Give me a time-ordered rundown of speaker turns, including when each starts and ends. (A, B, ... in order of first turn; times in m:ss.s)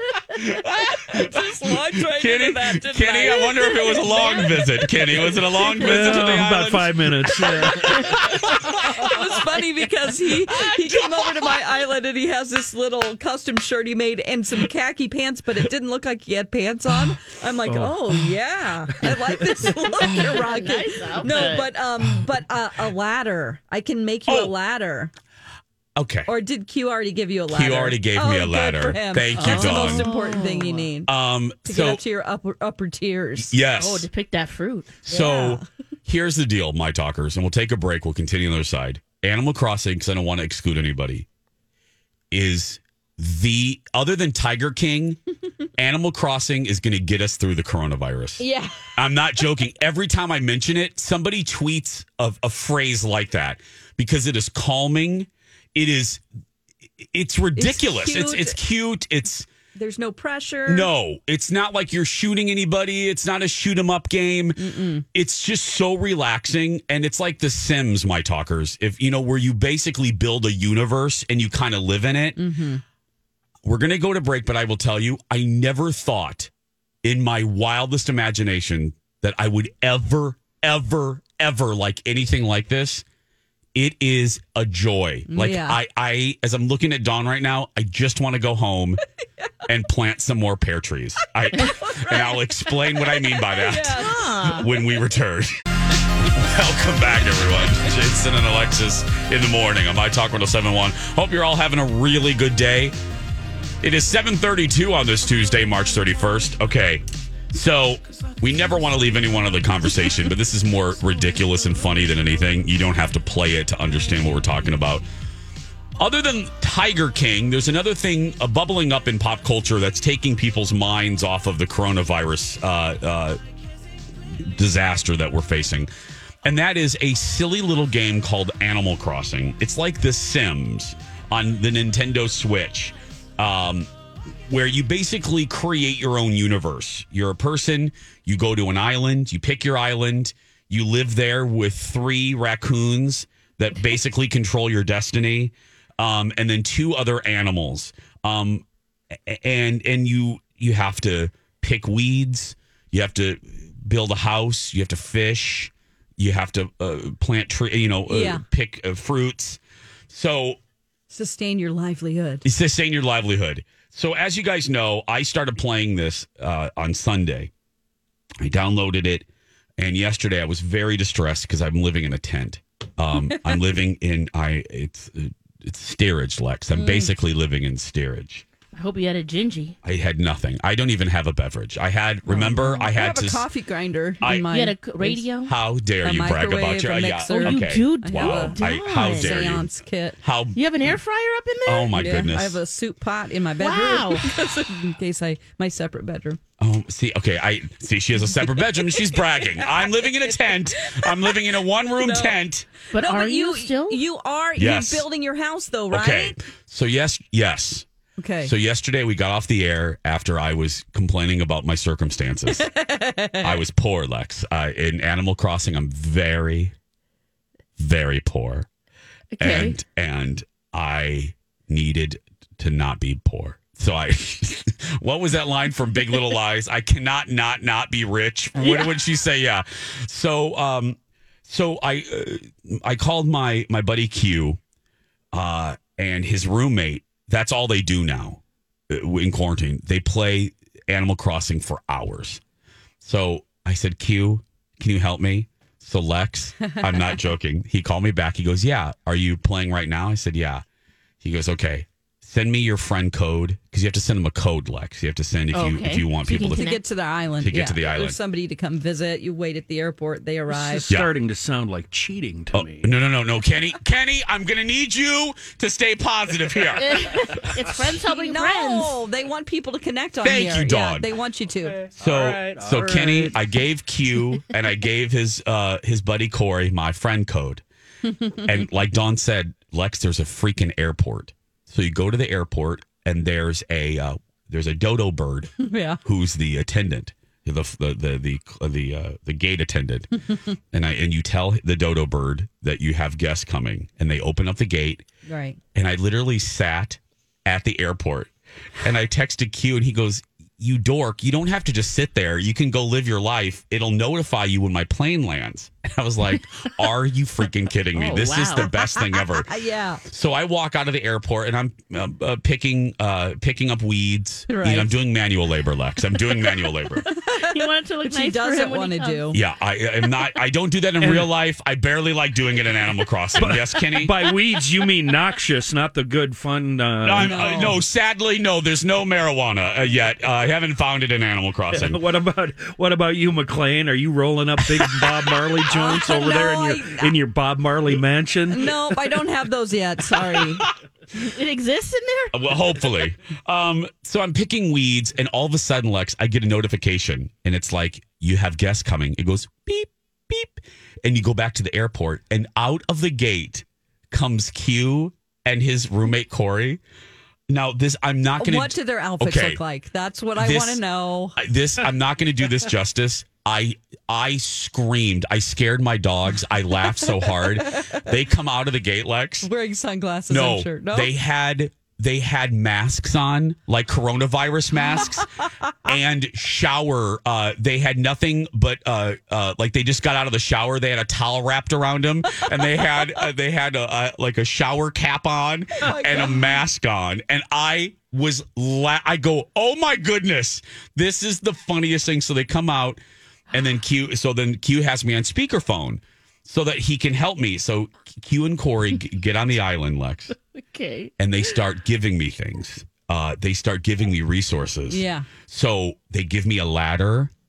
0:00.4-0:09.3 A
0:00.9-0:06.2 B
0:05.8-0:08.2 C
0:08.1-0:25.1 B
0:10.4-0:11.6 A
0:17.6-0:18.3 C
0:19.0-0:19.7 C
0:20.1-0:21.7 D
0:24.3-0:24.5 A
0:26.0-0:26.3 A
0:26.3-0:31.1 B
0:27.5-0:30.1 A
0:29.4-0:30.9 D
0:31.1-0:32.0 A
0:31.6-0:33.6 B
0:33.4-0:34.1 A
0:33.8-0:35.0 D
0:35.0-0:41.3 A
0:35.1-0:35.6 B
0:42.3-0:45.2 A
0:45.8-0:56.2 A
0:48.4-0:48.9 B
0:57.0-0:59.5 A
0:57.6-0:58.6 B
0:59.8-1:00.9 B
1:00.7-1:04.6 A
1:04.6-1:05.0 B
1:05.1-1:12.4 A
1:12.4-1:12.8 B
1:13.6-1:16.5 A
1:17.0-1:23.0 A
1:23.8-1:29.0 A
1:25.3-1:25.8 B
1:29.7-1:35.6 A
1:31.6-1:34.6 B
1:34.0-1:34.7 D
1:36.2-1:43.0 A
1:43.8-1:55.0 A
1:56.0-2:03.4 A
2:04.3-2:05.9 A
2:06.4-2:13.9 A
2:14.5-2:40.6 A
2:38.1-2:38.4 B
2:41.1-2:42.4 B
2:42.4-2:47.5 A
2:48.4-2:49.3 A
2:49.8-2:58.4 A
2:53.3-2:53.6 B
2:56.8-2:57.1 B
2:58.8-2:59.8 D
2:59.8-3:03.5 A
3:02.3-3:05.2 B
3:04.2-3:04.5 A
3:04.5-3:05.5 D
3:05.5-3:09.7 A
3:06.0-3:10.2 B
3:07.3-3:09.5 D
3:10.2-3:11.0 A
3:10.6-3:12.0 D
3:11.6-3:12.6 A
3:12.0-3:16.4 B
3:13.6-3:14.3 D
3:16.6-3:22.7 A
3:20.8-3:21.3 B
3:22.0-3:22.4 B
3:22.9-3:24.0 D
3:22.9-3:26.4 B
3:24.6-3:25.1 A
3:25.9-3:27.9 A
3:28.2-3:28.5 B
3:28.4-3:32.7 A
3:32.5-3:33.6 B
3:33.4-3:36.7 A
3:37.8-3:38.7 A
3:39.4-3:39.8 D
3:39.4-3:54.6 A
3:48.6-3:48.9 D
3:55.3-4:02.4 A
4:03.0-4:10.6 A
4:06.7-4:07.0 B
4:11.2-4:16.7 A
4:15.5-4:16.8 D
4:16.5-4:20.9 B
4:17.4-4:18.2 A
4:20.5-4:22.9 C
4:22.5-4:27.1 A
4:26.8-4:29.0 D
4:28.1-4:31.8 B
4:30.2-4:31.1 A
4:31.8-4:33.4 C
4:32.0-4:37.6 A
4:38.1-4:38.4 B
4:38.4-4:50.1 A
4:45.6-4:46.0 B
4:50.7-4:55.0 A
4:55.3-4:55.6 B
4:55.8-5:09.5 A
5:08.0-5:08.7 D
5:08.8-5:10.0 B
5:10.1-5:17.0 A
5:14.5-5:15.0 B
5:17.1-5:19.4 B
5:17.2-5:19.3 D
5:19.3-5:24.3 A
5:21.0-5:21.3 C
5:23.4-5:27.8 C
5:27.0-5:32.0 A
5:27.2-5:27.8 B
5:31.7-5:39.2 C
5:35.7-5:37.2 B
5:38.5-5:40.6 B
5:41.1-5:42.4 D
5:42.3-5:56.8 A
5:57.5-5:59.6 A
5:58.4-6:01.4 B
6:00.4-6:00.8 A
6:01.4-6:09.5 A
6:07.4-6:08.0 B
6:09.4-6:11.1 B
6:10.3-6:15.3 A
6:15.8-6:33.0 A
6:25.8-6:26.4 B
6:33.5-6:40.4 A
6:40.5-6:41.1 D
6:41.2-6:47.3 A
6:44.9-6:45.3 B